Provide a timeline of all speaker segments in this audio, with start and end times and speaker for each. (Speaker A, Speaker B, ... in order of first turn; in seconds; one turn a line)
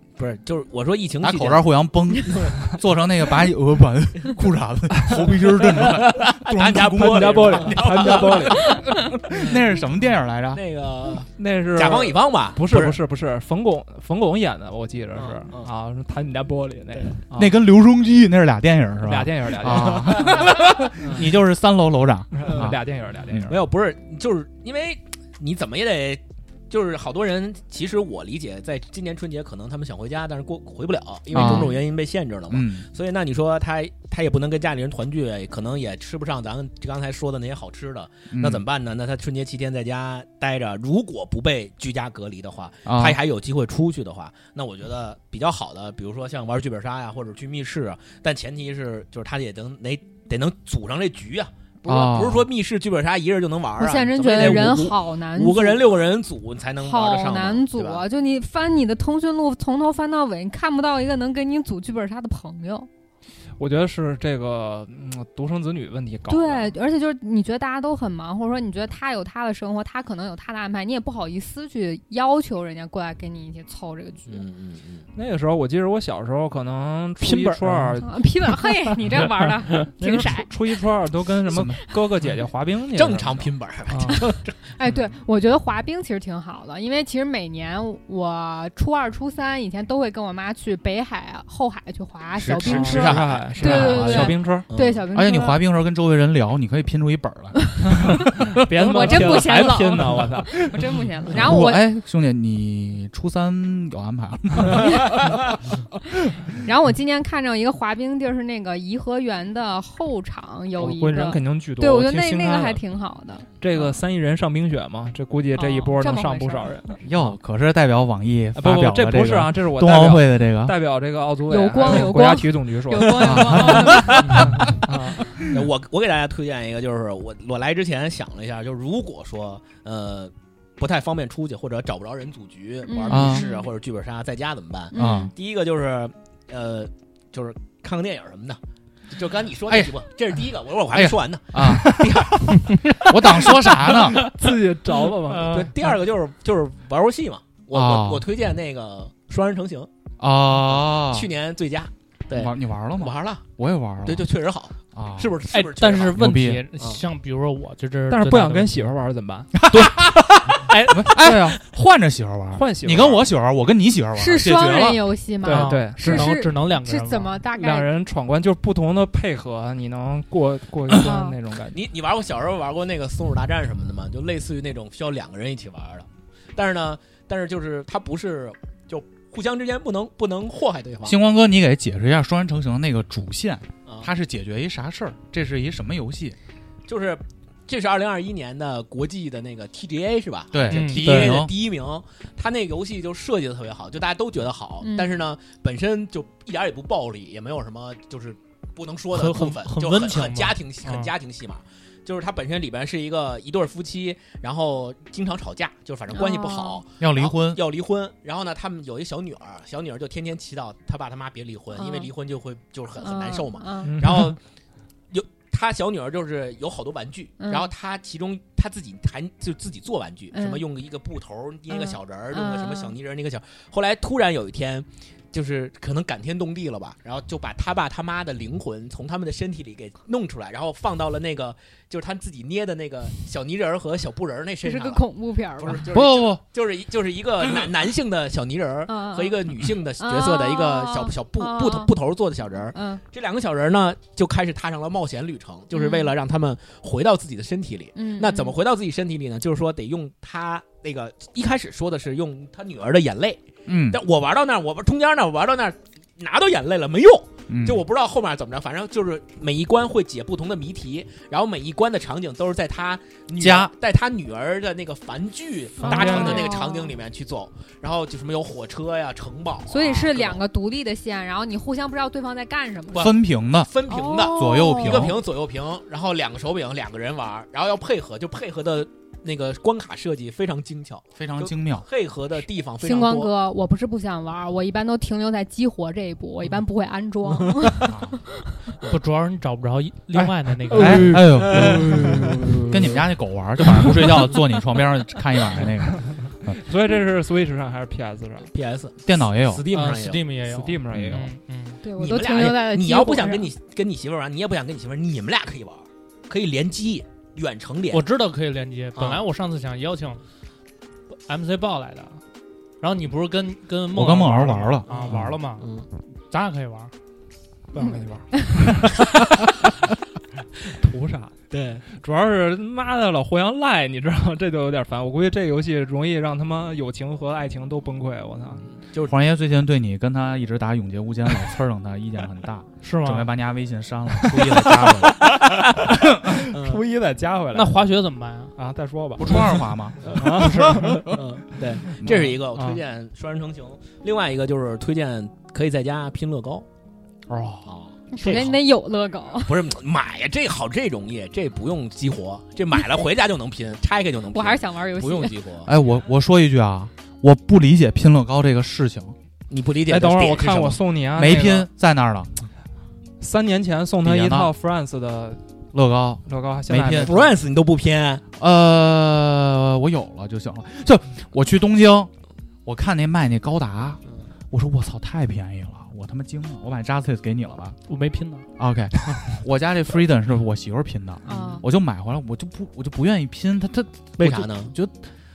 Speaker A: 0.2-1.7
Speaker B: 1.2-10.6
Speaker A: 2.3-2.7
Speaker A: 5.3-8.8
Speaker C: 7.0-9.0
Speaker A: 9.3-9.6
Speaker A: 10.5-13.0
Speaker C: 11.4-17.6
Speaker A: 15.2-15.7
Speaker B: 17.3-23.5
Speaker C: 19.0-20.4
Speaker C: 21.0-21.3
Speaker C: 22.3-23.6
Speaker A: 23.5-58.0
Speaker B: 31.3-31.8
Speaker B: 32.5-32.9
Speaker B: 38.3-38.6
Speaker B: 42.9-43.2
Speaker B: 51.9-52.5
Speaker D: 53.8-56.1
Speaker D: 56.8-62.9
Speaker C: 63.6-66.8
Speaker D: 66.3-74.5
Speaker A: 74.3-75.1
Speaker C: 75.2-78.2
Speaker E: 77.2-77.9
Speaker D: 78.0-80.8
Speaker C: 79.8-84.2
Speaker B: 81.5-81.9
Speaker A: 82.9-84.6
Speaker D: 84.8-95.6
Speaker A: 92.4-95.1
Speaker C: 92.6-94.7
Speaker B: 95.1-98.3
Speaker C: 98.0-100.7
Speaker D: 98.7-101.8
Speaker B: 99.0-99.6
Speaker B: 101.3-106.5
Speaker D: 104.8-105.2
Speaker D: 106.6-113.5
Speaker C: 110.8-112.8
Speaker C: 113.6-117.4
Speaker D: 115.5-116.9
Speaker B: 117.0-120.8
Speaker C: 118.5-125.3
Speaker D: 121.5-124.4
Speaker B: 123.2-124.4
Speaker A: 123.9-124.8
Speaker A: 125.4-143.7
Speaker D: 132.8-133.7
Speaker B: 133.1-133.5
Speaker D: 134.9-135.3
Speaker B: 134.9-135.3
Speaker B: 139.7-140.0
Speaker B: 140.9-144.3
Speaker C: 141.7-142.1
Speaker C: 143.8-145.7
Speaker E: 145.3-145.7
Speaker A: 145.4-149.9
Speaker B: 147.7-148.3
Speaker B: 150.2-151.3
Speaker A: 150.6-153.4
Speaker B: 152.3-154.3
Speaker A: 154.0-156.2
Speaker B: 154.9-155.4
Speaker E: 155.5-158.8
Speaker B: 156.1-156.6
Speaker A: 156.8-157.1
Speaker C: 158.1-159.5
Speaker B: 159.6-165.1
Speaker E: 160.7-161.0
Speaker C: 161.1-161.6
Speaker C: 162.5-163.3
Speaker D: 164.2-167.9
Speaker C: 165.4-166.4
Speaker E: 165.4-167.4
Speaker C: 167.5-171.8
Speaker D: 170.9-171.4
Speaker A: 171.7-181.2
Speaker B: 181.0-186.4
Speaker A: 186.9-214.4
Speaker B: 190.5-191.5
Speaker E: 190.7-191.4
Speaker D: 194.8-195.2
Speaker E: 199.1-201.1
Speaker D: 206.1-206.8
Speaker B: 207.0-207.6
Speaker D: 211.7-212.1
Speaker D: 213.0-214.1
Speaker C: 213.8-214.4
Speaker A: 215.1-235.0
Speaker D: 217.4-217.7
Speaker D: 220.3-220.7
Speaker D: 221.7-222.9
Speaker D: 234.6-235.9
Speaker A: 235.6-270.4
Speaker B: 235.9-236.4
Speaker D: 238.9-241.9
Speaker D: 242.7-243.0
Speaker D: 245.7-246.2
Speaker D: 247.9-248.6
Speaker B: 253.7-254.0
Speaker B: 257.5-257.9
Speaker B: 263.4-263.7
Speaker C: 265.8-266.6
Speaker D: 265.8-267.0
Speaker D: 269.7-273.1
Speaker A: 272.9-283.3
Speaker B: 272.9-273.7
Speaker D: 273.9-275.2
Speaker B: 274.3-275.2
Speaker B: 281.2-281.9
Speaker D: 282.8-288.2
Speaker B: 287.8-288.2
Speaker E: 288.9-292.3
Speaker B: 290.7-296.6
Speaker A: 290.8-292.9
Speaker C: 290.9-291.2
Speaker C: 291.9-292.3
Speaker C: 296.5-298.5
Speaker A: 298.5-300.3
Speaker B: 299.1-299.6
Speaker E: 299.7-301.8
Speaker C: 300.5-301.3
Speaker B: 300.9-301.2
Speaker D: 301.8-303.5
Speaker A: 302.0-308.0
Speaker E: 307.9-310.2
Speaker A: 309.0-309.2
Speaker E: 311.3-312.2
Speaker E: 312.8-315.7
Speaker B: 313.9-314.9
Speaker A: 314.9-315.9
Speaker E: 316.3-316.9
Speaker C: 317.7-318.8
Speaker A: 318.9-319.4
Speaker C: 320.8-328.7
Speaker A: 321.5-321.9
Speaker A: 328.7-329.2
Speaker B: 329.0-336.3
Speaker E: 332.8-333.3
Speaker C: 336.2-337.8
Speaker A: 336.4-336.9
Speaker E: 337.5-338.5
Speaker C: 338.6-341.1
Speaker B: 339.2-341.0
Speaker A: 340.1-340.5
Speaker A: 341.0-346.6
Speaker B: 342.0-342.3
Speaker C: 342.5-342.8
Speaker B: 347.3-347.7
Speaker A: 347.7-348.7
Speaker D: 348.1-349.6
Speaker A: 349.4-355.7
Speaker D: 354.3-355.4
Speaker B: 355.7-359.2
Speaker A: 359.5-360.8
Speaker C: 359.9-361.7
Speaker B: 361.2-362.3
Speaker C: 363.2-365.4
Speaker B: 364.0-364.5
Speaker B: 365.7-367.1
Speaker C: 366.3-367.4
Speaker A: 367.0-368.2
Speaker B: 368.4-372.1
Speaker B: 372.6-377.8
Speaker E: 377.9-378.5
Speaker B: 378.6-385.0
Speaker D: 381.2-381.6
Speaker A: 381.3-381.6
Speaker A: 384.2-384.8